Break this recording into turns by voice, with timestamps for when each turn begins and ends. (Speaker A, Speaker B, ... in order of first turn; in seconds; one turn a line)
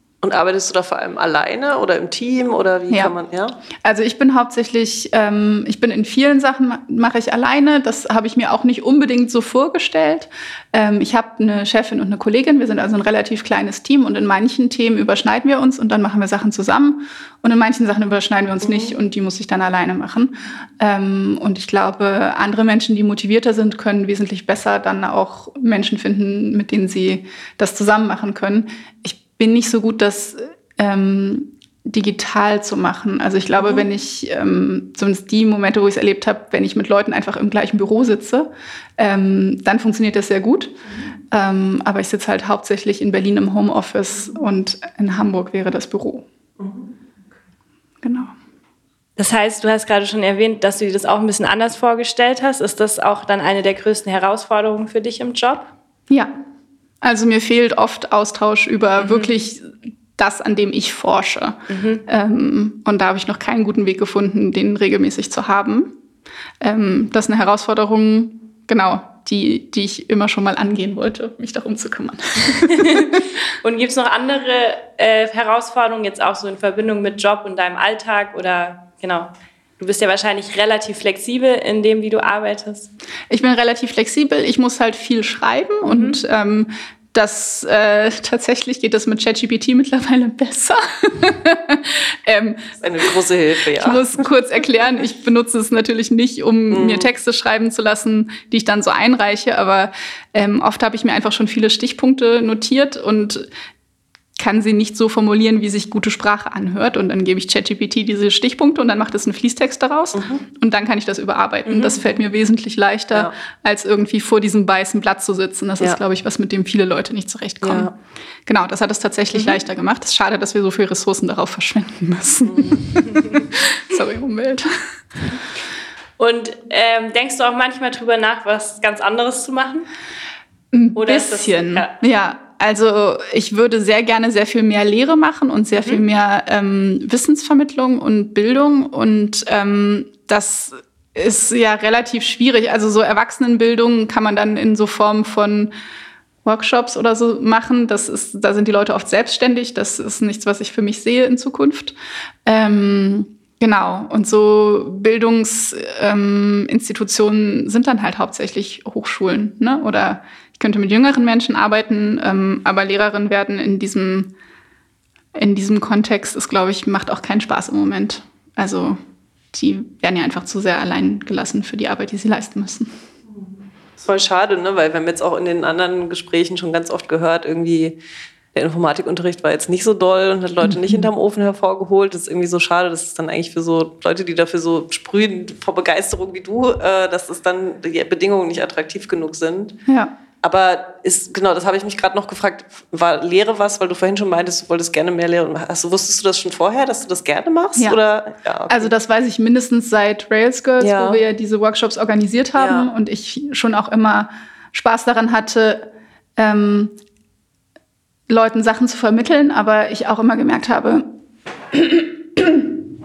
Speaker A: 0.2-3.6
Speaker B: 2.9-3.1
Speaker B: 3.8-40.8
Speaker A: 18.6-18.9
Speaker A: 33.6-33.8
Speaker B: 41.3-46.3
Speaker B: 48.0-48.3
Speaker C: 49.2-55.7
Speaker B: 57.0-66.0
Speaker C: 59.0-59.3
Speaker C: 61.7-62.0
Speaker B: 66.6-73.1
Speaker C: 72.7-82.9
Speaker B: 83.3-93.1
Speaker C: 85.8-86.2
Speaker A: 92.8-94.1
Speaker B: 93.7-103.5
Speaker A: 96.7-97.1
Speaker B: 104.4-117.9
Speaker A: 110.1-110.4
Speaker A: 117.6-117.9
Speaker B: 118.5-124.7
Speaker A: 122.4-122.8
Speaker C: 126.2-129.9
Speaker B: 130.7-145.7
Speaker C: 130.9-131.9
Speaker C: 135.8-136.0
Speaker B: 146.4-164.3
Speaker B: 165.3-169.0
Speaker B: 169.5-172.9
Speaker A: 174.0-178.0
Speaker A: 178.5-189.8
Speaker B: 189.9-190.1
Speaker A: 190.4-198.9
Speaker B: 198.7-206.9
Speaker A: 200.8-201.2
Speaker A: 202.6-202.9
Speaker B: 208.3-211.1
Speaker B: 211.7-212.8